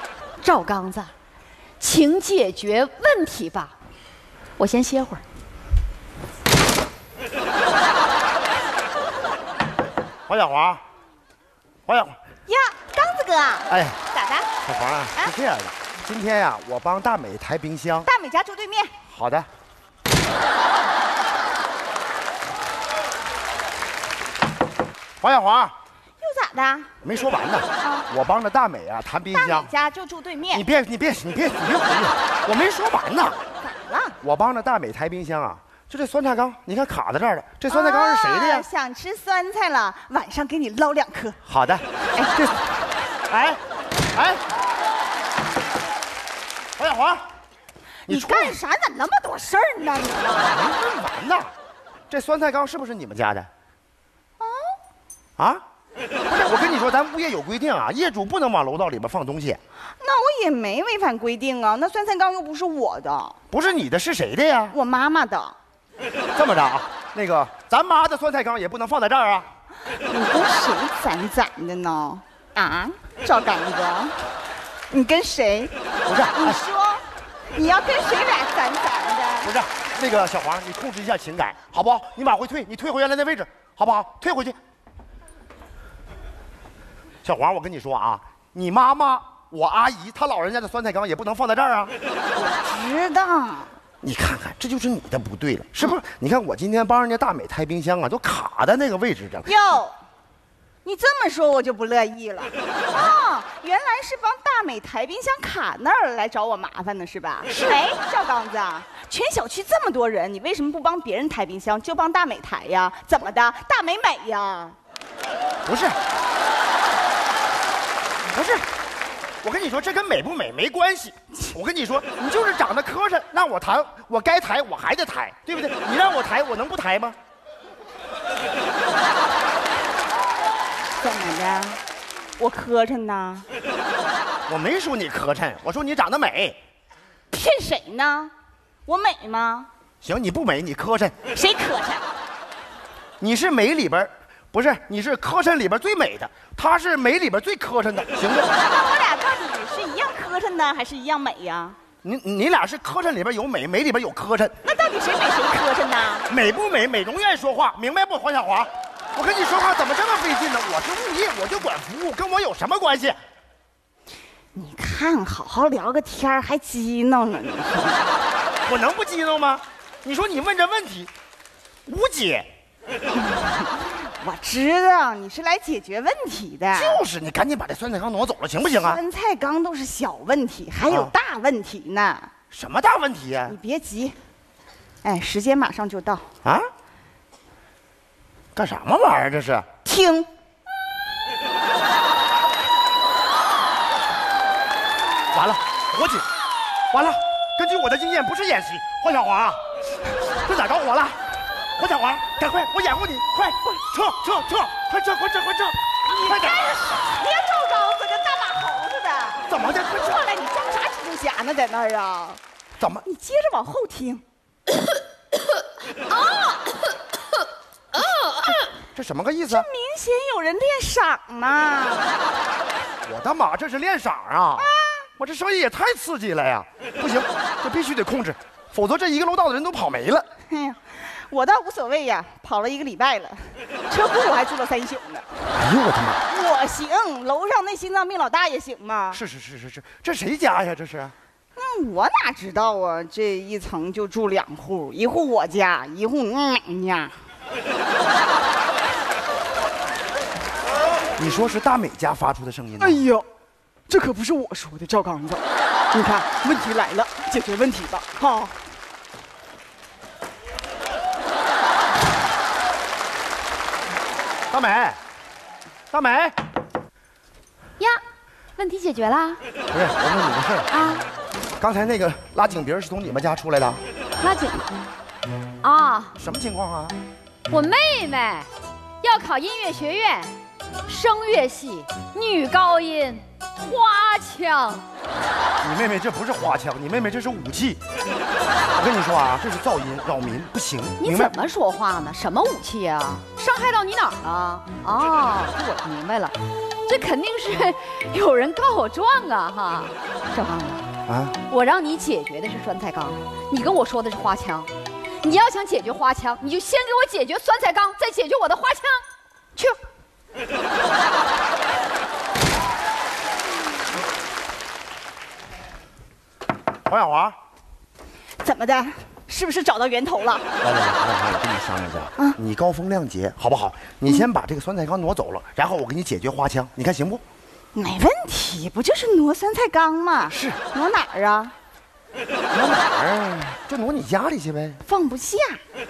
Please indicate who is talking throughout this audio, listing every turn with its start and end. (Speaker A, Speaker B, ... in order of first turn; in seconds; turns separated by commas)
Speaker A: 0.4-1.1, Speaker A: 1.8-3.7, Speaker A: 4.6-5.2, Speaker B: 10.3-10.8, Speaker B: 11.9-12.2, Speaker C: 12.5-14.5, Speaker B: 13.7-14.0, Speaker B: 14.7-18.1, Speaker C: 18.1-18.9, Speaker B: 19.1-19.5, Speaker B: 25.2-25.8, Speaker C: 26.2-26.9, Speaker B: 27.0-29.7, Speaker C: 27.8-28.1, Speaker C: 29.3-30.6, Speaker B: 30.5-33.4, Speaker C: 33.6-34.2, Speaker B: 34.2-38.7, Speaker C: 37.7-41.4, Speaker B: 41.5-43.6, Speaker B: 44.1-44.4, Speaker B: 46.8-47.3, Speaker B: 48.1-48.6, Speaker C: 48.1-50.6, Speaker B: 50.4-51.5, Speaker B: 52.1-53.5, Speaker C: 54.4-54.8, Speaker B: 55.4-55.6, Speaker B: 56.3-59.6, Speaker C: 60.0-63.4, Speaker B: 63.5-64.8, Speaker C: 64.7-65.5, Speaker B: 66.3-69.5, Speaker C: 70.0-74.2, Speaker C: 74.9-75.7, Speaker B: 76.1-76.6, Speaker C: 76.3-79.5, Speaker B: 79.4-84.6, Speaker B: 87.2-91.9, Speaker C: 92.3-93.7, Speaker B: 94.0-99.5, Speaker C: 99.5-99.9, Speaker C: 100.8-114.8, Speaker B: 115.7-116.0, Speaker B: 118.3-118.7, Speaker B: 119.4-127.2, Speaker C: 131.0-131.8, Speaker C: 132.4-133.5, Speaker B: 134.5-136.6, Speaker C: 137.3-138.3, Speaker C: 138.9-139.7, Speaker B: 140.0-141.2, Speaker C: 141.3-142.0, Speaker B: 143.2-148.5, Speaker C: 148.6-151.8, Speaker B: 152.0-154.6, Speaker C: 154.6-156.3, Speaker B: 156.3-163.2, Speaker C: 164.6-168.1, Speaker B: 168.7-171.1, Speaker B: 171.9-172.5, Speaker C: 174.2-177.1, Speaker B: 176.7-179.0, Speaker C: 178.7-182.3, Speaker B: 180.9-181.1, Speaker B: 182.5-183.6, Speaker C: 183.5-184.2, Speaker C: 185.0-186.2, Speaker B: 188.6-189.7, Speaker C: 189.8-190.3, Speaker B: 195.3-196.3, Speaker B: 196.9-199.6, Speaker B: 200.3-201.2, Speaker B: 201.8-206.7, Speaker C: 206.1-212.4, Speaker B: 209.5-210.2, Speaker B: 212.8-213.1, Speaker C: 213.1-214.2, Speaker A: 216.1-216.5, Speaker A: 217.9-218.7, Speaker C: 218.0-218.6, Speaker B: 218.9-219.7, Speaker C: 219.5-222.1, Speaker B: 223.1-230.3, Speaker C: 224.6-225.1, Speaker C: 230.5-235.3, Speaker B: 235.5-236.2, Speaker C: 236.3-239.2, Speaker B: 239.1-241.1, Speaker C: 241.6-247.2, Speaker B: 251.2-253.0, Speaker C: 252.8-253.3, Speaker C: 253.9-258.6, Speaker B: 264.5-265.0, Speaker B: 265.9-266.4, Speaker A: 268.6-269.4, Speaker B: 269.7-270.7, Speaker A: 270.7-271.1, Speaker B: 271.6-273.8, Speaker A: 274.2-274.7, Speaker A: 275.6-276.1, Speaker B: 276.2-277.0, Speaker A: 277.5-278.5, Speaker A: 279.0-280.3, Speaker A: 280.9-284.9, Speaker B: 285.6-287.8, Speaker B: 288.7-291.4, Speaker A: 291.0-300.9, Speaker B: 301.1-301.4, Speaker A: 301.5-304.7, Speaker A: 305.2-309.0, Speaker B: 316.9-317.4, Speaker C: 318.4-320.5, Speaker B: 320.6-327.2, Speaker C: 327.7-331.5, Speaker B: 330.3-330.6, Speaker B: 332.5-334.8, Speaker C: 334.9-335.6